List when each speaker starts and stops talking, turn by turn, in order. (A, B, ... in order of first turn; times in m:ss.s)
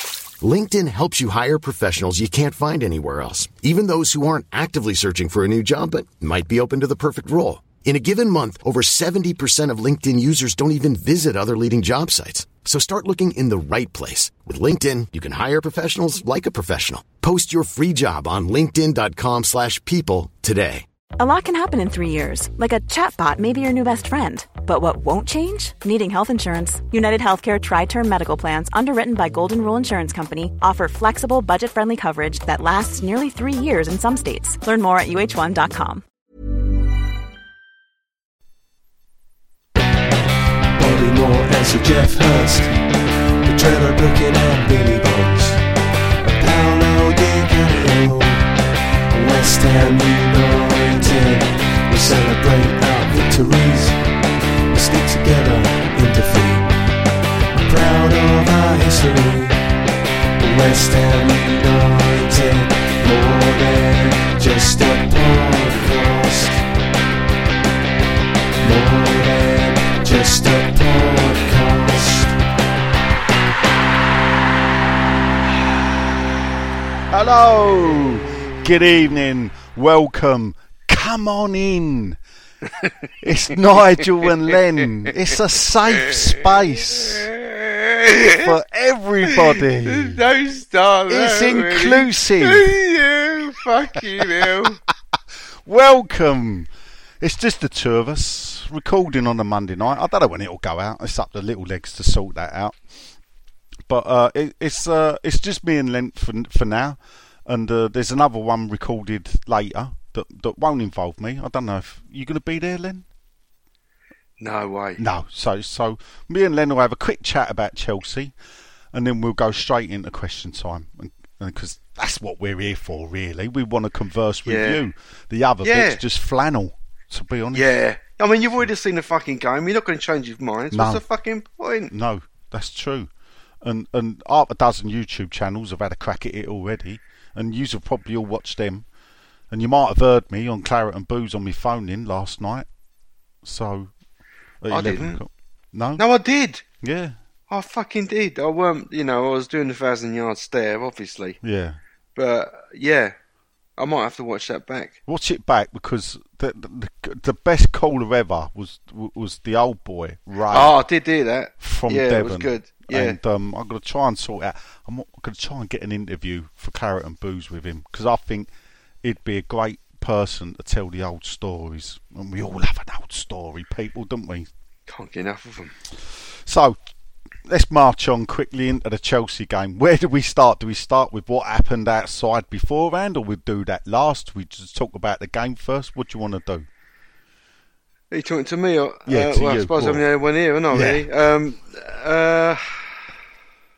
0:00.4-0:20.9 A
0:21.2-0:36.0 B
0:40.7-0:45.6 C
0:46.2-0:48.5 C
0:49.1-0:54.1 C
0:54.7-0:56.8 C
0:57.5-0:59.6 C
1:00.4-1:06.7 C
1:08.6-1:12.4 C
1:17.1-1:22.2 D
1:23.2-1:27.3 D
1:24.2-1:25.1 E
1:26.0-1:26.4 E
1:27.0-1:28.4 E
1:28.1-1:30.2 D
1:29.3-1:34.8 E
1:31.1-1:32.7 D
1:35.6-1:42.8 D
1:43.9-1:53.0 D
1:54.4-1:55.0 E
1:55.0-1:58.4 D
1:58.9-2:07.7 D
2:04.4-2:04.8 E
2:05.6-2:06.0 E
2:07.5-2:11.9 E
2:10.7-2:11.0 D
2:11.9-2:13.1 D
2:13.6-2:18.9 D
2:19.5-2:22.7 D
2:23.4-2:23.9 D
2:24.6-2:26.0 D
2:24.7-2:25.2 E
2:26.0-2:26.6 E
2:26.8-2:27.2 D
2:27.5-2:31.4 E
2:31.4-2:31.8 D
2:32.2-2:33.2 E
2:33.8-2:35.0 E
2:35.1-2:40.8 D
2:40.5-2:43.2 E
2:41.6-2:48.5 D
2:49.0-2:54.5 D
2:54.9-2:55.8 E
2:56.3-2:56.8 D
2:57.4-3:06.7 D
3:08.1-3:13.2 E
3:09.1-3:10.1 D
3:10.7-3:11.1 D